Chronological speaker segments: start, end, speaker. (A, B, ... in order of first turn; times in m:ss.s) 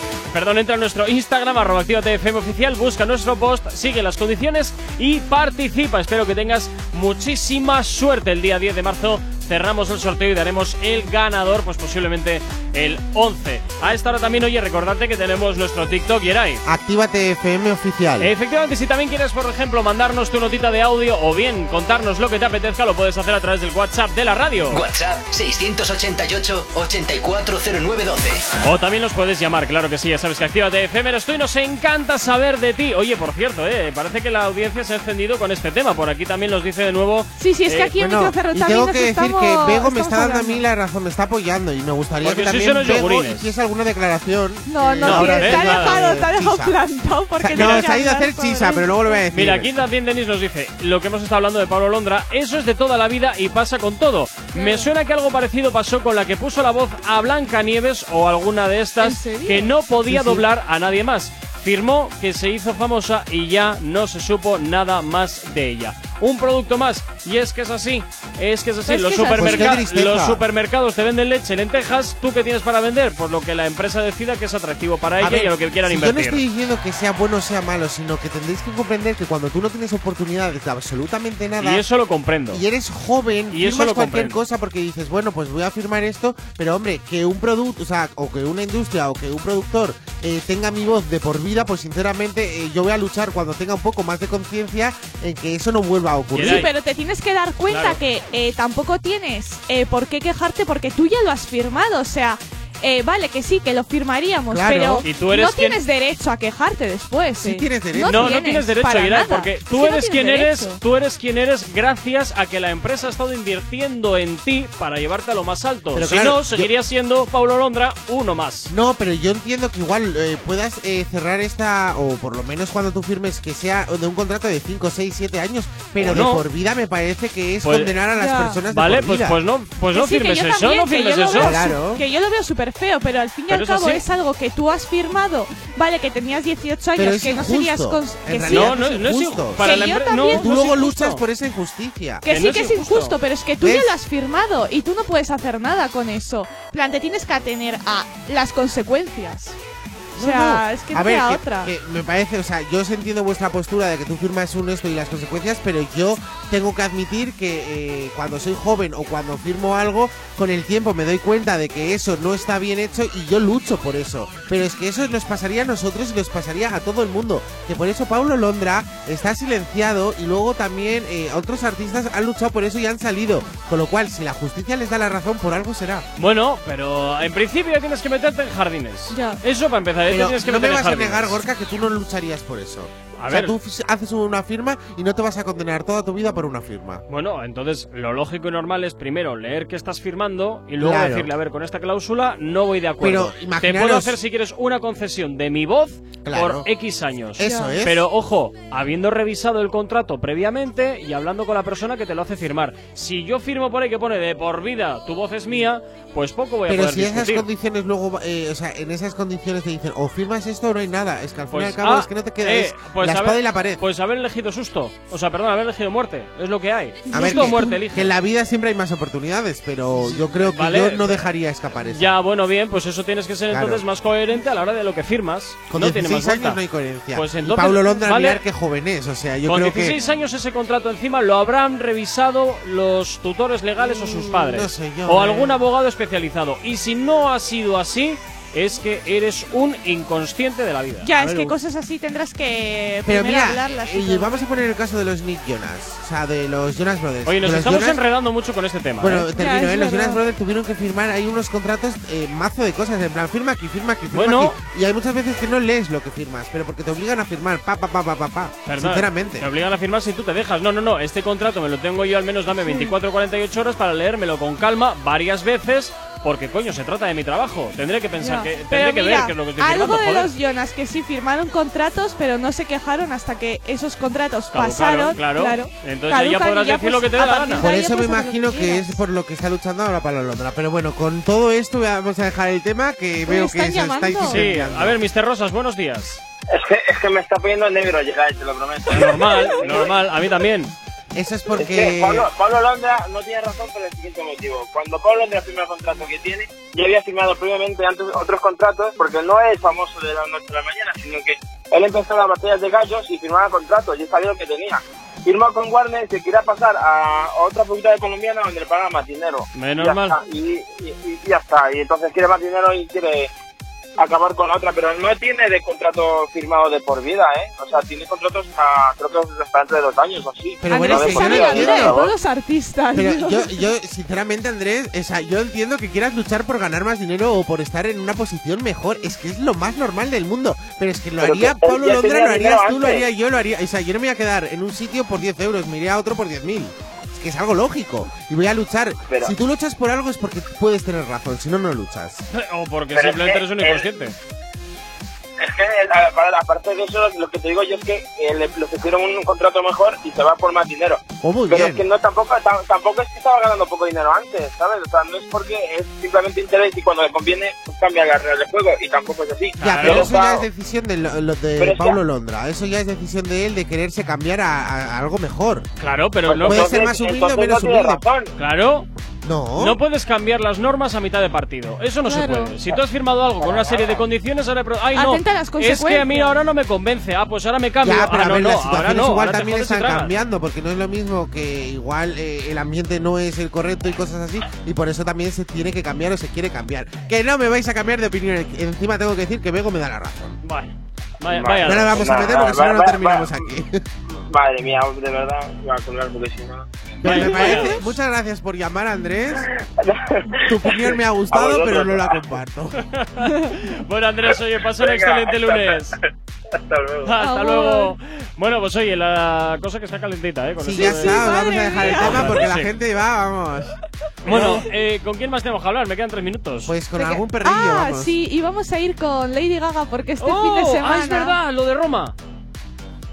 0:00.3-0:16.6 A
0:16.6-0:18.3 B
0:18.2-0:24.8 A
0:24.7-0:28.4 C
0:28.6-0:37.9 A
0:37.4-0:40.6 D
0:38.0-0:46.8 B
0:42.2-0:43.5 A
0:44.7-0:49.2 D
0:45.0-0:46.0 A
0:47.4-0:49.7 B
0:47.6-0:47.9 A
0:49.3-1:16.4 A
0:54.6-0:54.9 D
0:59.0-0:59.7 D
1:00.0-1:00.4 B
1:08.9-1:09.8 D
1:09.4-1:10.4 B
1:15.2-1:21.8 B
1:21.6-1:22.6 A
1:22.5-1:36.7 B
1:23.5-1:24.4 A
1:36.3-1:36.7 A
1:36.4-1:50.8 D
1:37.7-1:38.0 A
1:44.5-1:45.0 B
1:45.0-1:45.8 A
1:47.4-1:48.4 B
1:48.1-1:58.7 A
1:56.0-1:56.7 B
1:58.7-2:09.4 B
2:06.0-2:06.4 A
2:07.6-2:08.0 A
2:08.2-2:08.6 D
2:08.7-2:11.6 A
2:09.9-2:18.8 D
2:11.3-2:12.0 B
2:13.5-2:14.0 A
2:17.0-2:22.2 B
2:18.5-2:21.2 A
2:19.6-2:20.4 D
2:22.2-2:29.6 D
2:22.3-2:23.1 A
2:23.6-2:24.0 B
2:30.2-2:56.0 B
2:30.2-2:31.7 D
2:56.2-3:01.4 A
2:59.1-2:59.4 D
3:00.1-3:07.0 B
3:03.2-3:03.5 A
3:07.1-3:27.4 A
3:10.8-3:11.3 B
3:13.0-3:14.2 B
3:16.2-3:16.6 B
3:17.4-3:18.0 B
3:17.4-3:17.8 D
3:26.7-3:33.8 B
3:31.5-3:38.1 A
3:37.1-3:37.8 D
3:37.1-3:42.1 B
3:40.4-3:41.2 A
3:41.9-3:46.6 A
3:43.5-3:43.8 B
3:45.7-3:50.0 B
3:47.1-3:48.4 A
3:49.4-4:01.1 A
3:53.9-3:55.6 B
4:01.0-4:04.4 D
4:01.2-4:01.5 B
4:03.0-4:08.0 B
4:07.3-4:09.3 A
4:09.0-4:19.5 B
4:09.3-4:10.2 D
4:14.1-4:14.6 A
4:18.6-4:30.3 A
4:22.7-4:22.9 D
4:28.2-4:39.0 D
4:34.5-4:37.7 A
4:37.6-4:45.0 B
4:43.3-4:44.4 D
4:44.3-4:46.2 A
4:46.5-4:49.9 E
4:48.9-4:50.7 A
4:51.1-4:52.3 B
4:51.5-5:13.3 E
5:09.5-5:10.2 A
5:14.0-5:22.1 E
5:20.6-5:22.0 B
5:20.7-5:23.5 D
5:23.0-5:42.2 B
5:31.2-5:33.0 E
5:39.1-5:39.3 E
5:42.3-5:44.1 A
5:42.9-5:43.9 E
5:45.4-6:00.4 E
5:51.2-5:51.8 B
5:59.6-6:00.1 A
5:59.6-6:05.7 B
6:01.6-6:02.0 E
6:05.8-6:06.9 A
6:06.3-6:08.3 E
6:06.4-6:08.0 B
6:08.4-6:08.9 A
6:09.2-6:09.8 B
6:09.6-6:20.1 A
6:12.1-6:12.6 D
6:13.4-6:14.0 E
6:15.0-6:16.3 D
6:17.8-6:30.3 B
6:30.4-6:32.1 A
6:31.3-6:33.3 E
6:31.6-6:33.8 B
6:34.2-6:36.9 E
6:37.0-6:39.4 B
6:37.0-6:37.8 A
6:37.1-6:37.8 D
6:39.8-6:42.2 E
6:40.4-6:42.7 B
6:42.9-6:46.0 A
6:44.8-6:45.6 E
6:46.5-6:47.1 E
6:47.0-6:52.7 A
6:47.2-6:47.9 D
6:50.6-6:53.7 B
6:50.8-6:52.4 D
6:54.3-6:56.7 A
6:54.3-6:54.6 B
6:56.6-6:58.1 B
6:57.0-7:01.3 D
7:00.2-7:02.1 A